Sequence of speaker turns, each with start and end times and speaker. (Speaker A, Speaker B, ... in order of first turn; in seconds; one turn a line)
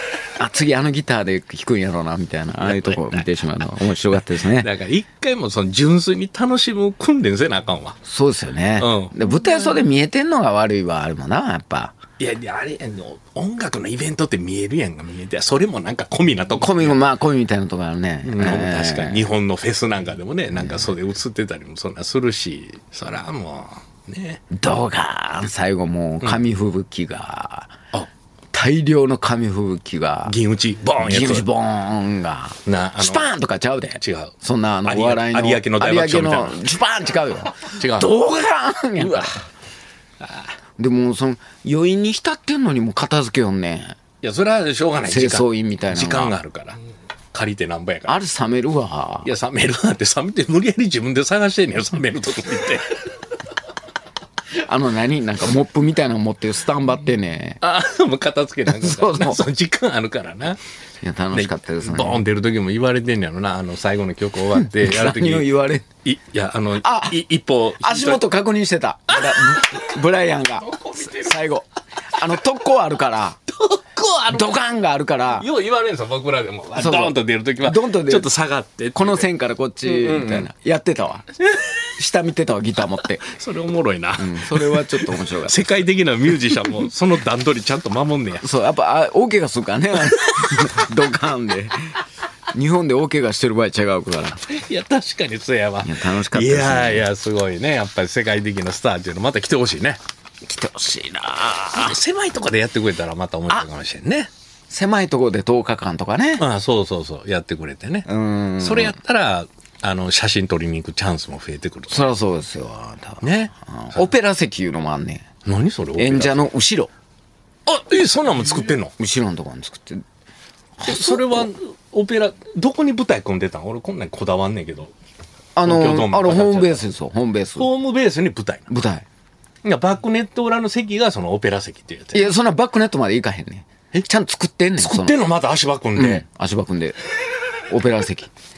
Speaker A: 0.3-4.7
Speaker B: 2.6-3.7
Speaker B: 4.4-8.0
Speaker A: 8.1-12.0
Speaker B: 8.8-9.2
Speaker B: 12.2-17.0
Speaker A: 16.6-19.3
Speaker B: 18.2-24.4
Speaker A: 24.5-27.7
Speaker A: 28.5-30.4
Speaker B: 30.3-31.5
Speaker A: 31.0-39.4
Speaker B: 32.7-33.3
Speaker B: 34.0-34.3
Speaker B: 34.9-36.6
Speaker B: 37.7-38.1
Speaker B: 39.0-39.4
Speaker B: 40.2-40.5
Speaker A: 40.8-44.0
Speaker B: 44.2-46.8
Speaker A: 45.0-46.3
Speaker B: 47.3-48.2
Speaker A: 48.1-49.3
Speaker B: 49.2-53.0
Speaker A: 54.6-57.6
Speaker B: 57.6-60.6
Speaker A: 58.7-59.5
Speaker A: 61.0-62.2
Speaker B: 61.3-65.5
Speaker A: 64.6-65.9
Speaker B: 66.0-68.3
Speaker A: 66.8-67.2
Speaker A: 67.8-73.4
Speaker B: 69.2-69.8
Speaker B: 70.6-71.3
Speaker B: 73.5-74.5
Speaker A: 74.3-75.5
Speaker B: 75.3-79.3
Speaker A: 76.8-78.3
Speaker A: 79.0-81.3
Speaker B: 79.8-80.5
Speaker B: 81.4-81.8
Speaker A: 82.0-83.2
Speaker B: 83.2-88.5
Speaker A: 84.2-85.7
Speaker A: 88.4-92.0
Speaker A: 92.5-94.5
Speaker B: 94.5-100.0
Speaker A: 95.8-97.1
Speaker A: 100.5-102.0
Speaker B: 101.8-104.3
Speaker A: 104.7-106.5
Speaker B: 106.4-112.1
Speaker A: 108.1-109.0
Speaker A: 111.9-115.3
Speaker B: 113.2-114.1
Speaker B: 115.5-116.5
Speaker A: 116.0-116.9
Speaker B: 117.7-118.9
Speaker A: 119.0-120.0
Speaker A: 120.8-121.5
Speaker B: 120.8-124.9
Speaker A: 125.6-127.7
Speaker B: 125.6-126.8
Speaker B: 127.6-128.7
Speaker A: 128.7-129.1
Speaker B: 129.6-132.3
Speaker A: 132.1-135.2
Speaker B: 134.8-136.2
Speaker A: 136.0-137.0
Speaker A: 137.7-138.3